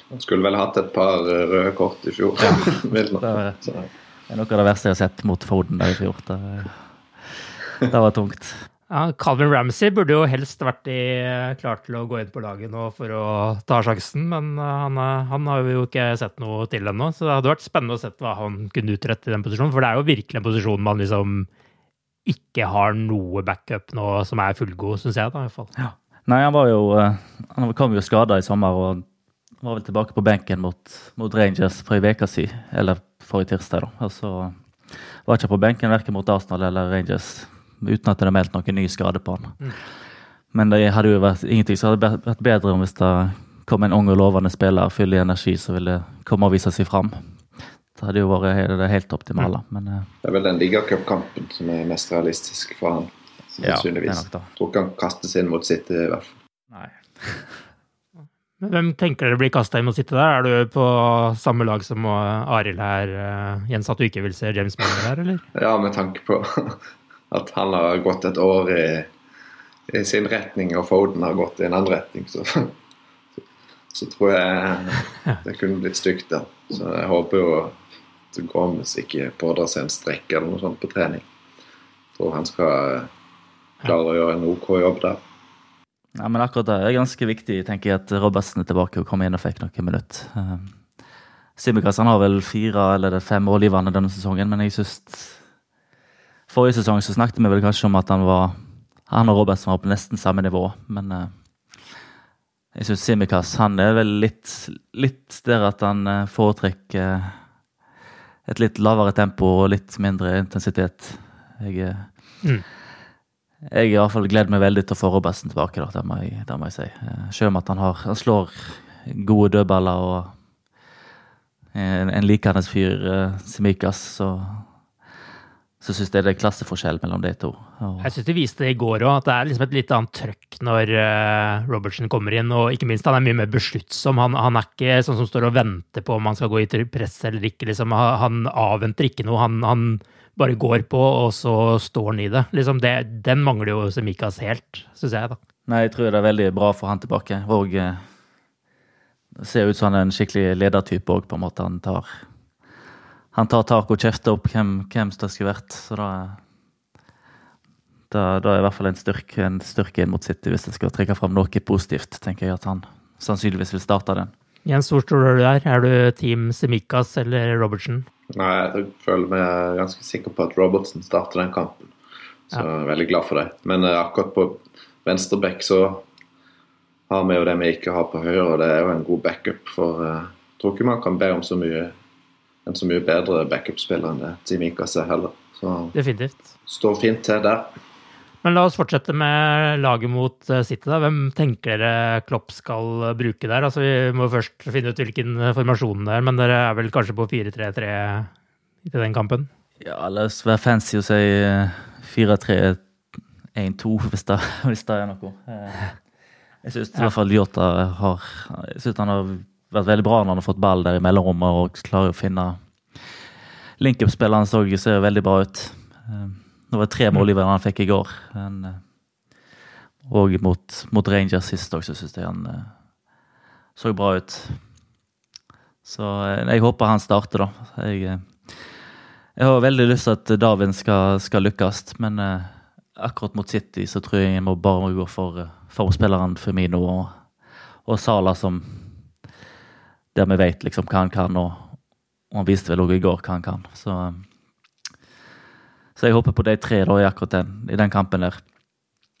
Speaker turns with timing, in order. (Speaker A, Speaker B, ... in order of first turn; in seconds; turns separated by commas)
Speaker A: 0.1-3.9, Speaker B: 2.4-3.6, Speaker B: 4.3-8.6, Speaker C: 8.9-21.5, Speaker C: 22.2-25.7, Speaker B: 25.8-29.0, Speaker B: 29.6-39.8, Speaker B: 40.5-47.2, Speaker B: 48.0-50.1, Speaker A: 50.2-56.3, Speaker B: 53.6-54.5, Speaker B: 56.7-57.6, Speaker C: 58.6-65.4, Speaker A: 65.5-69.1, Speaker A: 69.9-72.7, Speaker A: 73.9-77.8, Speaker A: 78.3-81.2, Speaker A: 82.2-83.1, Speaker A: 83.8-85.2, Speaker B: 86.1-90.8, Speaker B: 91.6-95.4, Speaker B: 96.5-101.3, Speaker B: 102.7-107.4, Speaker B: 108.5-112.1, Speaker B: 113.7-120.3, Speaker B: 121.7-124.7, Speaker B: 125.8-128.1, Speaker C: 128.0-145.4, Speaker B: 145.7-148.0, Speaker B: 149.4-152.2, Speaker B: 153.3-156.4, Speaker B: 158.1-164.3, Speaker C: 164.6-168.1, Speaker A: 168.3-171.9, Speaker A: 172.5-176.0, Speaker A: 177.1-181.9, Speaker A: 182.7-185.9, Speaker C: 185.9-186.5, Speaker A: 186.7-187.7, Speaker C: 188.4-198.3, Speaker C: 198.8-199.5, Speaker B: 199.8-202.8, Speaker B: 203.5-205.9, Speaker B: 206.6-212.6, Speaker B: 213.8-218.8, Speaker B: 220.1-222.7, Speaker B: 223.8-224.6, Speaker B: 225.8-228.7, Speaker B: 229.4-237.1, Speaker B: 237.8-239.0, Speaker B: 240.1-241.8, Speaker B: 242.3-244.2, Speaker B: 246.0-248.4